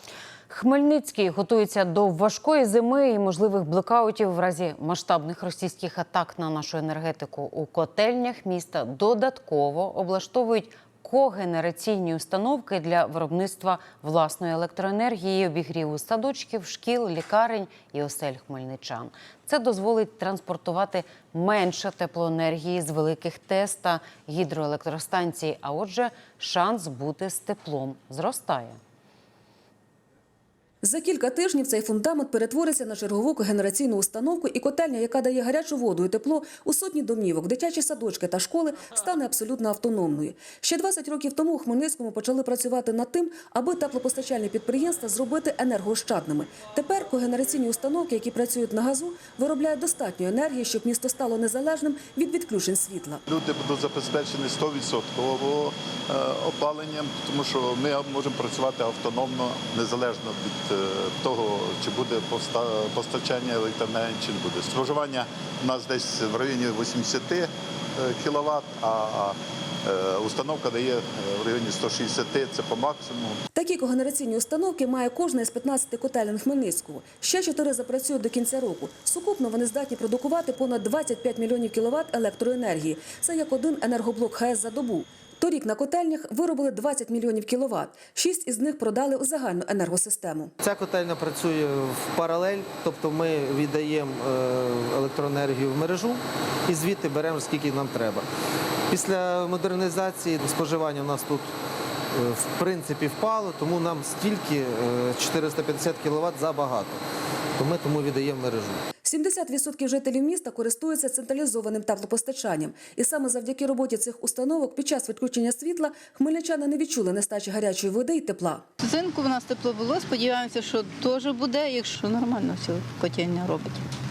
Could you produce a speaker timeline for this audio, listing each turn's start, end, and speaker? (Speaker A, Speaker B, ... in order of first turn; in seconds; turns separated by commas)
Speaker A: 0.5-28.8, Speaker B: 30.8-53.2, Speaker C: 53.3-73.4, Speaker B: 73.5-90.5, Speaker D: 90.6-98.2, Speaker D: 98.9-101.5, Speaker D: 102.1-107.0, Speaker D: 107.6-108.8, Speaker B: 109.0-118.6, Speaker E: 118.8-123.8